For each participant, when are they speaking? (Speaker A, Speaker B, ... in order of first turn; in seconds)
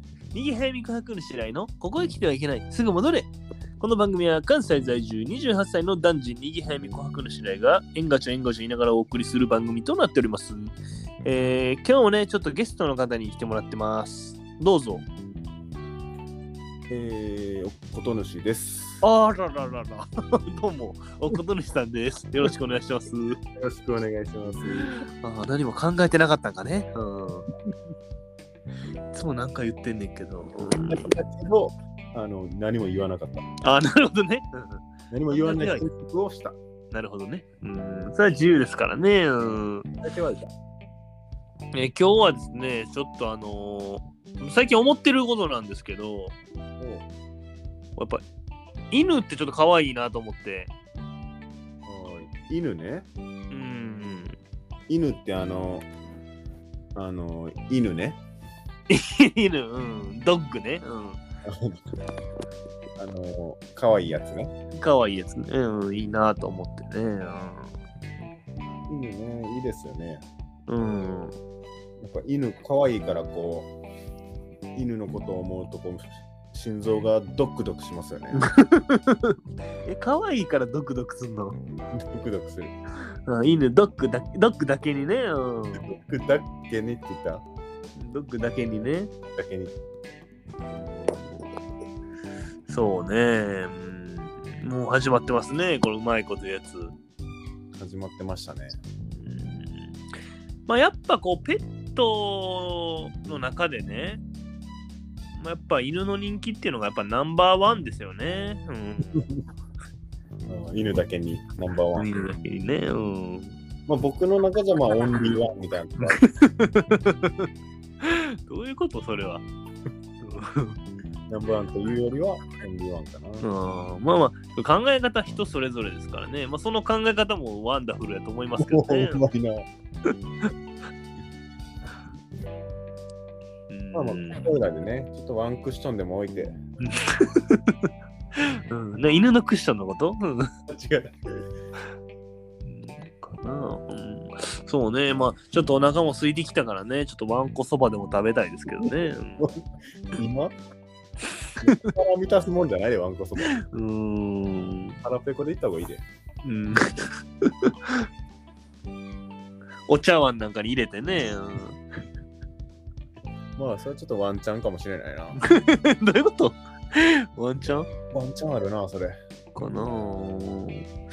Speaker A: 0.3-15.0, 19.0-23.4, 25.2-27.5, 29.1-31.1, 33.6-35.9, 36.9-39.9, 41.7-46.3, 48.0-48.2, 48.9-50.7, 53.5-54.3, 58.9-61.2, 64.7-67.7, 70.7-71.3, 78.5-81.6, 83.3-85.8, 88.0-89.1, 92.7-96.9, 99.1-100.0, 100.7-104.2, 105.3-109.3, 112.0-113.6, 116.0-117.5, 118.0-119.4, 120.2-120.8, 123.4-129.2, 133.7-134.5, 136.8-140.5, 142.6-149.4, 153.6-155.0, 156.4-158.1, 159.9-161.8, 165.4-167.9, 169.5-170.9
Speaker B: 16.9-19.0, 23.6-24.9, 30.6-33.4, 35.1-36.5, 39.4-40.5, 46.8-47.0, 51.8-53.1, 54.9-55.9, 56.9-58.2, 61.5-61.8, 63.0-64.5, 68.9-70.2, 72.0-73.7, 74.7-78.5, 81.9-82.7, 85.8-87.4, 89.3-89.7, 97.7-98.8, 109.1-109.3, 110.5-112.1, 113.9-116.2, 121.3-123.5, 128.6-129.6, 133.9-136.6, 140.7-141.4, 148.8-149.6, 150.1-150.5, 151.6-153.5, 155.0-156.0, 163.6-165.4, 168.1-169.2